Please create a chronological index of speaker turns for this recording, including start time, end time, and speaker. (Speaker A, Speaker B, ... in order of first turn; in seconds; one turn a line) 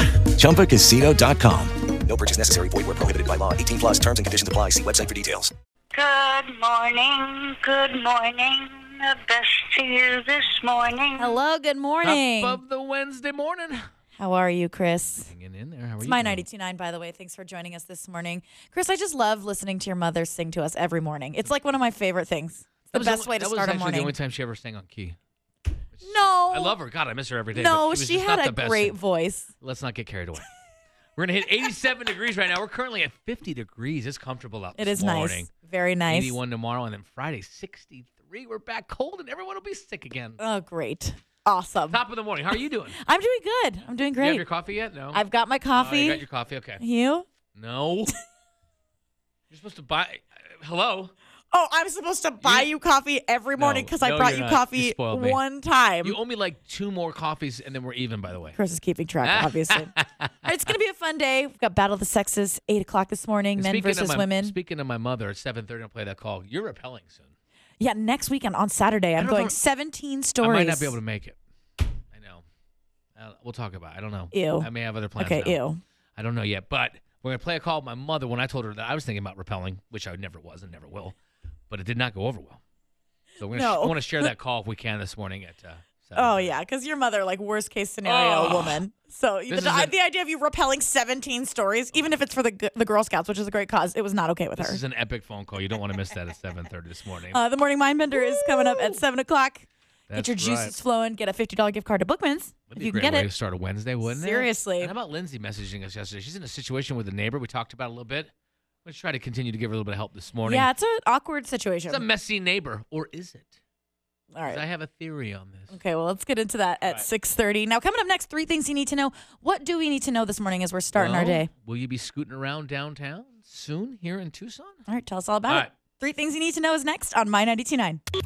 Speaker A: 0.3-5.5
Speaker B: 5.9-11.3
Speaker C: 11.2-12.6
Speaker D: 12.0-13.9
Speaker C: 14.2-15.3
Speaker D: 15.1-16.4
Speaker C: 16.0-24.1
Speaker D: 22.9-25.2
Speaker D: 25.9-29.0
Speaker C: 26.0-26.7
Speaker C: 27.5-29.5
Speaker D: 29.6-30.5
Speaker D: 31.2-35.5
Speaker C: 34.8-36.4
Speaker D: 36.1-40.4
Speaker C: 40.4-42.0
Speaker D: 41.9-43.0
Speaker C: 43.0-44.4
Speaker D: 44.2-45.2
Speaker C: 45.1-46.2
Speaker D: 45.7-46.8
Speaker C: 46.8-47.2
Speaker D: 47.5-48.1
Speaker D: 49.5-51.1
Speaker C: 51.5-56.2
Speaker D: 52.4-52.7
Speaker D: 53.6-55.4
Speaker D: 56.0-58.6
Speaker C: 58.6-59.9
Speaker D: 59.2-60.6
Speaker C: 60.4-64.5
Speaker D: 63.5-67.3
Speaker C: 67.8-70.9
Speaker D: 69.2-69.5
Speaker D: 70.4-71.4
Speaker D: 72.1-72.4
Speaker D: 73.2-75.6
Speaker C: 74.3-75.8
Speaker D: 76.2-81.1
Speaker D: 81.7-82.6
Speaker D: 83.4-86.6
Speaker C: 83.5-84.3
Speaker C: 86.2-94.8
Speaker D: 88.0-88.8
Speaker D: 89.5-89.9
Speaker D: 94.6-97.4
Speaker C: 97.3-103.3
Speaker D: 98.1-99.0
Speaker D: 100.1-100.7
Speaker D: 102.7-108.3
Speaker C: 104.0-104.9
Speaker D: 108.8-110.7
Speaker C: 110.5-112.0
Speaker D: 111.9-113.6
Speaker C: 114.3-114.6
Speaker D: 114.5-115.7
Speaker C: 115.7-121.5
Speaker D: 120.9-124.8
Speaker C: 124.9-128.0